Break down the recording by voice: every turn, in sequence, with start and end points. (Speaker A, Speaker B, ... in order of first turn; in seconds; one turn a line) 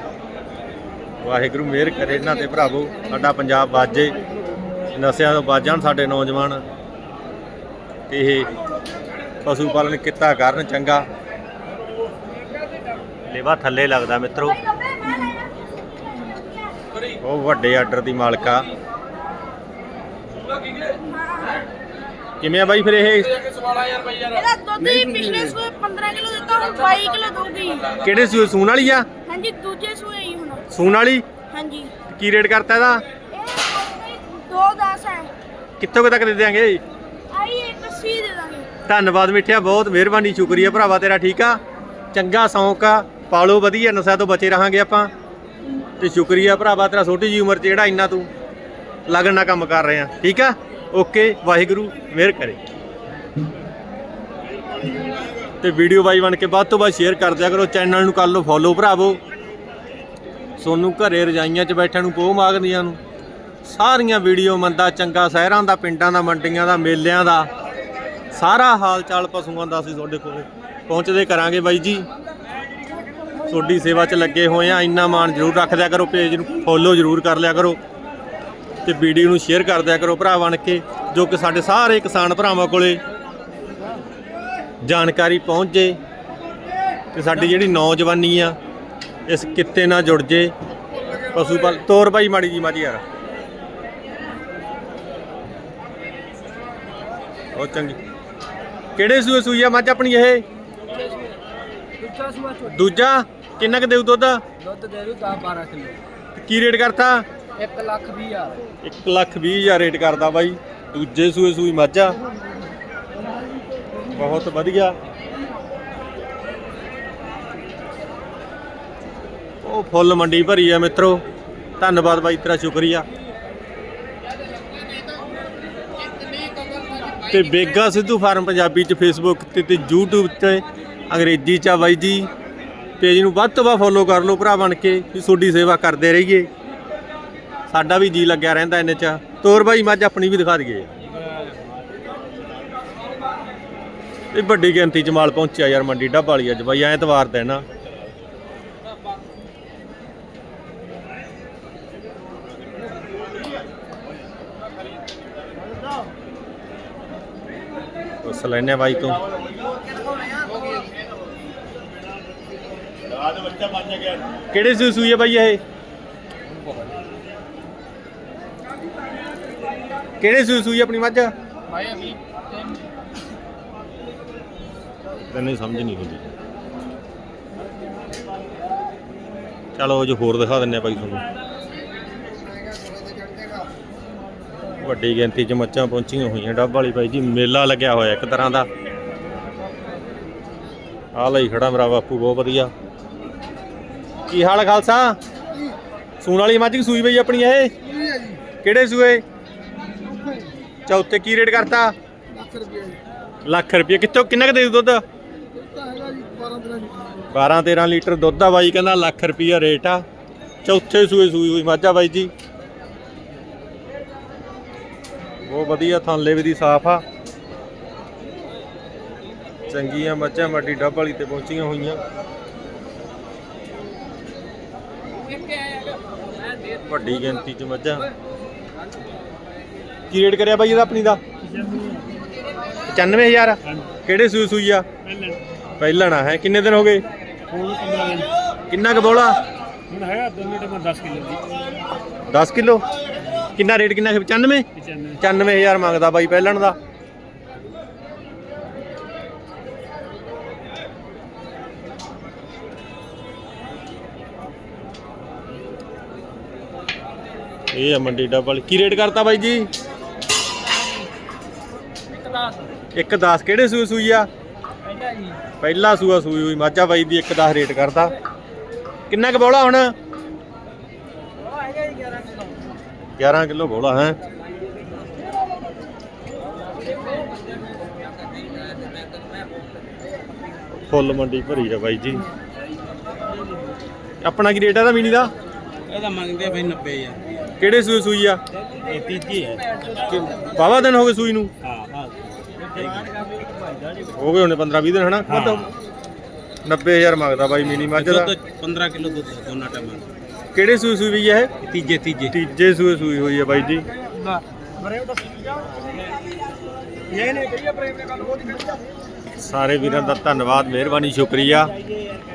Speaker A: 1.2-4.1
Speaker A: 4.9-6.6
Speaker A: 8.1-8.5
Speaker A: 9.4-11.1
Speaker A: 13.3-14.6
Speaker B: 14.5-15.6
Speaker B: 16.1-16.8
Speaker A: 17.2-18.7
Speaker B: 20.9-21.6
Speaker A: 22.4-23.4
Speaker B: 24.1-28.0
Speaker A: 28.0-29.1
Speaker B: 29.2-30.7
Speaker A: 30.7-31.2
Speaker B: 31.5-31.9
Speaker A: 32.0-33.0
Speaker B: 33.3-35.3
Speaker A: 35.8-36.8
Speaker B: 37.3-38.7
Speaker A: 38.9-41.6
Speaker A: 42.1-45.1
Speaker A: 46.0-48.3
Speaker A: 49.1-52.6
Speaker A: 55.6-59.2
Speaker A: 60.6-63.0
Speaker A: 63.6-67.5
Speaker A: 68.3-72.0
Speaker A: 73.5-77.8
Speaker A: 78.8-83.0
Speaker A: 84.8-86.0
Speaker A: 87.1-88.5
Speaker A: 89.3-90.5
Speaker A: 91.3-93.0
Speaker A: 97.5-98.0
Speaker A: 99.0-100.4
Speaker C: 102.0-102.6
Speaker A: 102.6-104.4
Speaker C: 104.6-106.0
Speaker A: 106.3-107.2
Speaker C: 107.6-108.6
Speaker A: 108.8-112.2
Speaker A: 114.2-115.0
Speaker A: 119.6-121.2
Speaker A: 121.8-123.0
Speaker A: 127.3-132.3
Speaker A: 133.0-136.5
Speaker A: 137.7-140.9
Speaker A: 144.3-147.6
Speaker A: 158.2-159.2
Speaker A: 164.5-165.6
Speaker A: 170.2-171.3
Speaker C: 171.7-172.2
Speaker A: 175.3-176.3
Speaker A: 179.8-181.2
Speaker A: 184.8-188.7
Speaker A: 191.1-192.7
Speaker A: 194.3-195.2
Speaker A: 196.2-197.7
Speaker A: 198.6-199.2
Speaker A: 200.9-201.9
Speaker A: 203.4-205.0
Speaker C: 206.0-206.9
Speaker A: 207.3-210.0
Speaker A: 210.6-212.3
Speaker A: 215.4-217.0
Speaker A: 219.7-222.0
Speaker A: 226.8-228.0
Speaker A: 230.1-231.2
Speaker D: 231.6-232.0
Speaker A: 232.9-234.8
Speaker A: 235.8-237.0
Speaker D: 237.5-238.3
Speaker A: 238.7-239.4
Speaker D: 239.9-241.4
Speaker A: 242.3-242.8
Speaker A: 243.5-246.8
Speaker A: 257.7-259.7
Speaker A: 262.9-264.3
Speaker A: 265.6-268.1
Speaker A: 269.1-269.9
Speaker A: 273.2-274.2
Speaker A: 280.7-282.2
Speaker A: 284.2-285.3
Speaker D: 285.9-287.2
Speaker A: 287.6-288.4
Speaker D: 288.8-290.2
Speaker A: 290.5-291.5
Speaker D: 291.6-294.0
Speaker A: 294.1-295.7
Speaker D: 295.3-295.6
Speaker A: 296.6-298.3
Speaker D: 297.7-300.1
Speaker A: 300.5-301.5
Speaker D: 301.6-302.3
Speaker A: 302.3-303.9
Speaker D: 307.1-307.5
Speaker C: 307.7-308.4
Speaker A: 309.3-311.7